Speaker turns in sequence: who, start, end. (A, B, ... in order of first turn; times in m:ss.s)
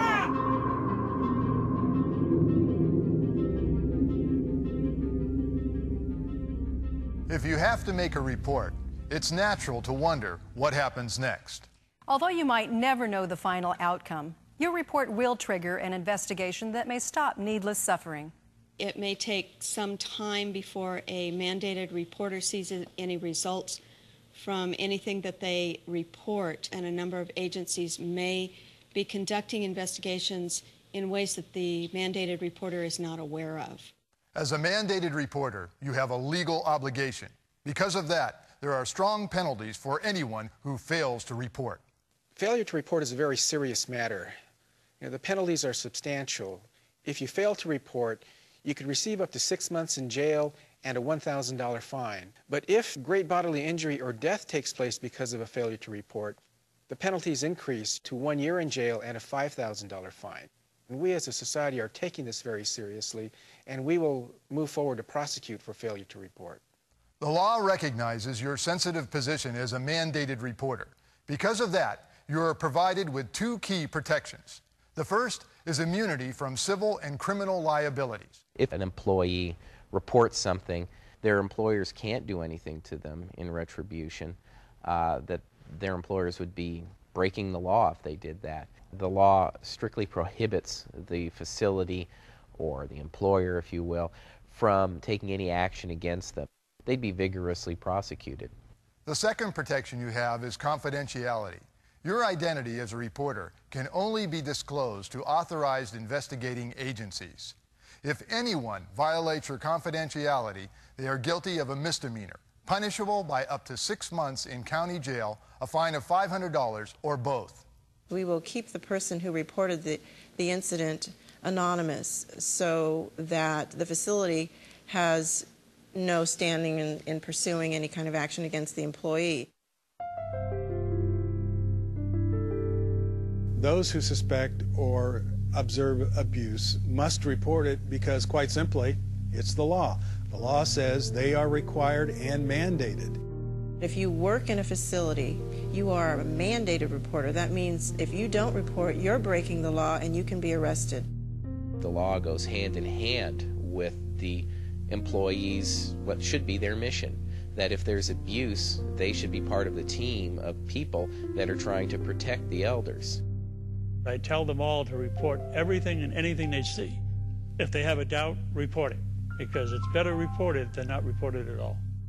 0:07.3-0:11.7 A
0:12.1-0:18.3 B
0:18.8-0:23.8 C
0:24.3-0:33.9 C
0:34.3-0:41.8 A
0:42.4-0:44.3 D
0:45.0-1:06.6 D
1:07.2-1:18.4 A
1:18.6-1:38.5 E
1:39.0-1:57.6 A
1:58.1-2:09.5 F
2:13.6-2:23.2 G
2:23.8-2:31.1 F
2:31.8-2:43.2 E
2:44.0-2:47.0 H
2:47.6-2:51.8 H